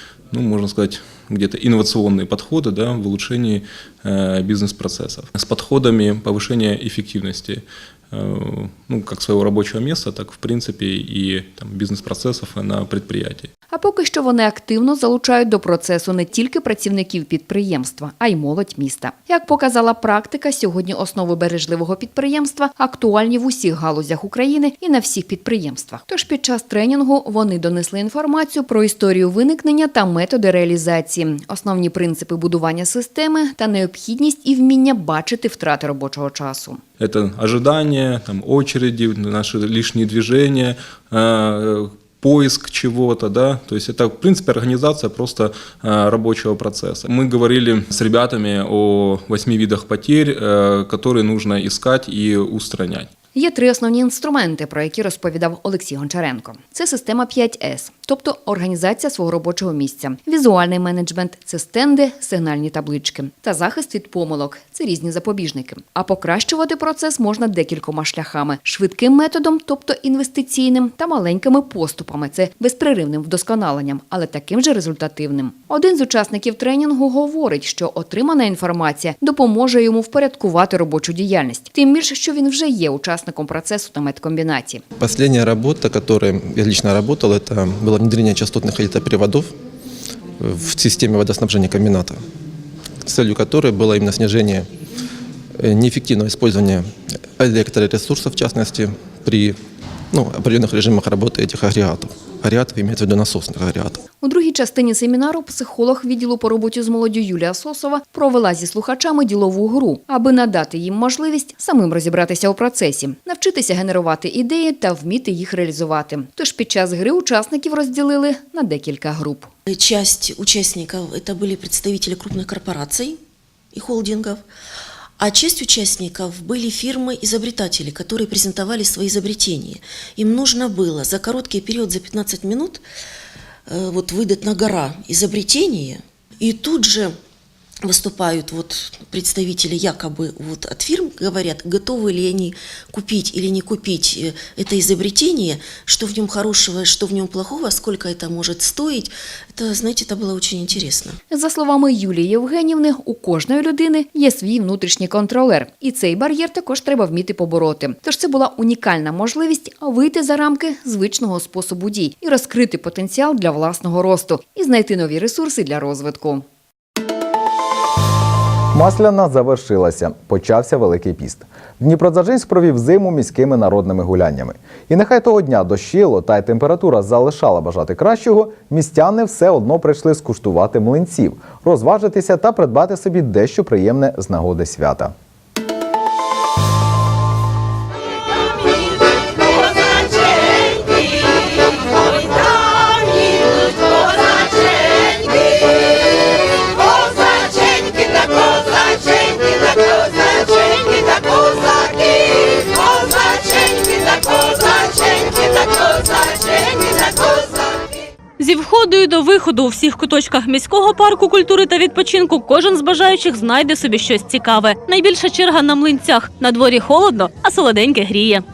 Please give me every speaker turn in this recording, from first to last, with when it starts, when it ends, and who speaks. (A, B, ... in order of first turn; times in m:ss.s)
0:00.3-0:13.5 A
0:13.7-0:36.8 B
0:37.0-0:53.1 A
0:53.3-1:24.8 B
1:25.0-1:29.5 C
1:30.4-1:32.2 C
1:33.0-1:34.7 C
1:35.6-1:39.6 C
1:40.1-1:44.0 C
1:44.2-1:59.5 B
1:59.7-2:03.2 D
2:03.7-2:04.4 D
2:05.2-2:12.8 D
2:13.7-2:17.2 D
2:17.8-2:31.2 D
2:31.3-2:46.4 B
2:48.7-3:05.1 E
3:28.4-3:38.4 F